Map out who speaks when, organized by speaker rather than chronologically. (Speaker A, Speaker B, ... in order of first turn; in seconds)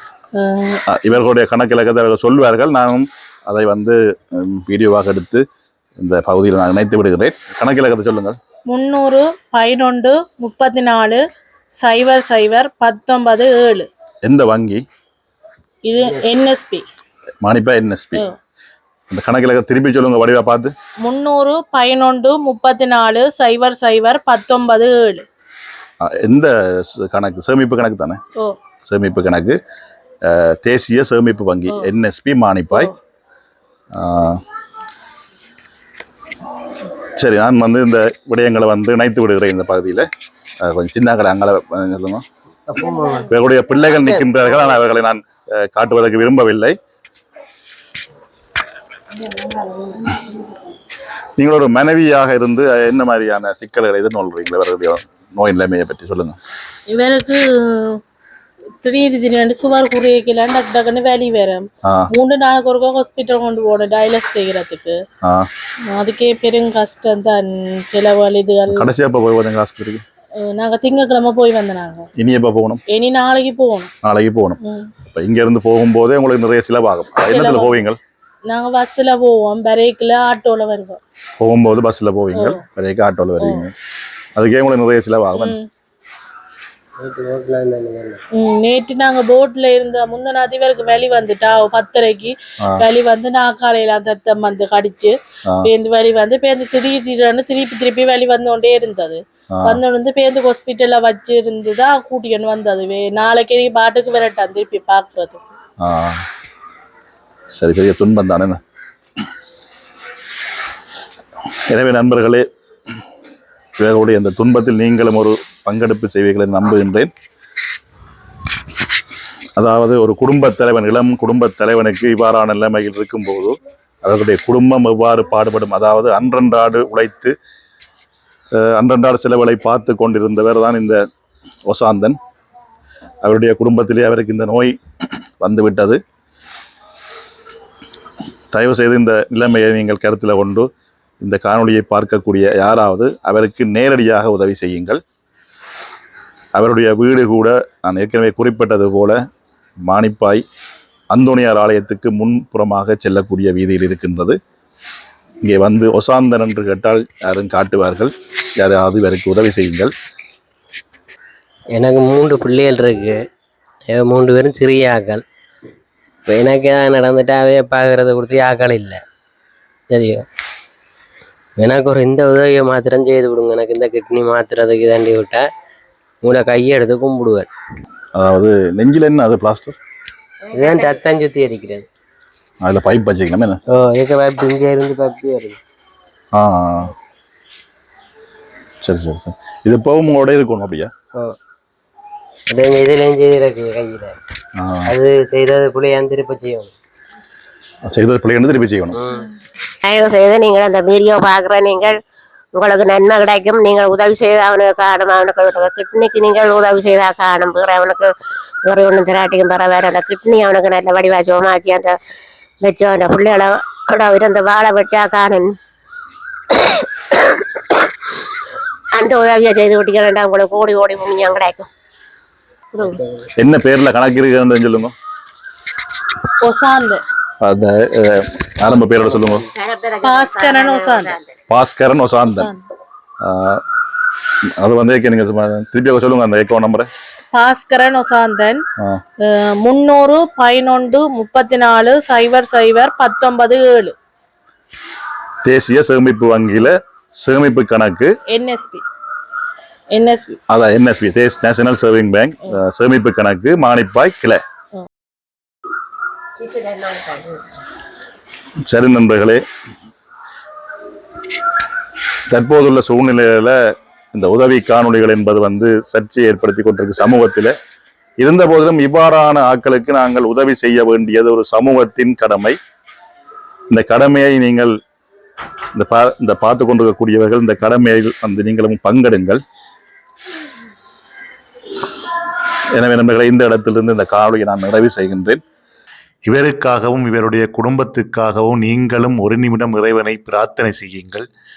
Speaker A: 0.4-0.8, 8.7-11.2, 11.8-13.9, 15.9-16.9, 21.1-25.2, 56.9-58.0, 58.8-65.0, 65.9-68.9, 70.4-72.1, 72.9-73.9, 74.6-74.9, 77.2-77.8, 78.5-81.0, 82.3-82.6, 83.4-83.7, 85.3-85.7, 88.4-105.4, 226.4-227.0, 230.0-231.2, 232.2-232.6, 237.3-238.6, 239.3-243.9, 248.3-248.8, 249.9-250.4
Speaker B: 0.9-5.4, 6.0-8.4, 14.3-14.8, 17.4-18.2, 19.1-20.7, 26.1-28.2, 28.9-29.6, 30.3-32.9, 34.0-34.4, 37.2-40.1, 40.6-42.2, 43.3-46.8, 51.4-56.4, 68.7-70.0, 72.2-72.8, 74.0-74.6, 75.1-78.0, 81.4-83.7, 84.4-85.6, 105.8-106.2, 107.5-108.6, 111.5-112.5, 113.8-117.1, 119.6-127.3, 128.6-131.0, 131.7-132.2, 133.2-134.8, 135.4-136.0, 138.5-140.7, 141.2-145.0, 146.6-149.2, 149.8-150.4, 151.1-154.4, 155.4-159.9, 178.2-179.8, 182.7-183.6, 186.3-186.9, 188.8-190.9, 194.6-194.9, 197.9-199.0, 223.4-224.9, 227.4-229.4, 231.5-232.5, 233.2-233.6, 234.6-236.9, 245.4-248.1, 250.5-254.4, 258.7-259.4, 262.3-263.6, 264.1-267.5, 268.2-272.6, 273.7-274.7, 275.8-279.4, 282.8-285.4, 286.8-288.6
Speaker C: 42.7-43.3, 87.0-88.2, 161.8-163.2, 163.9-165.2, 166.3-169.0, 169.9-170.2, 171.6-175.5, 176.2-177.5, 180.5-181.9, 183.7-185.6, 192.5-194.2, 194.9-196.7, 198.9-199.3, 229.1-229.4
Speaker D: 180.5-181.0, 199.8-201.9, 202.6-208.1, 208.7-212.0, 212.6-215.5, 216.5-217.9, 218.9-221.7, 222.7-223.0, 229.5-231.3, 256.4-257.5
Speaker E: 286.3-291.2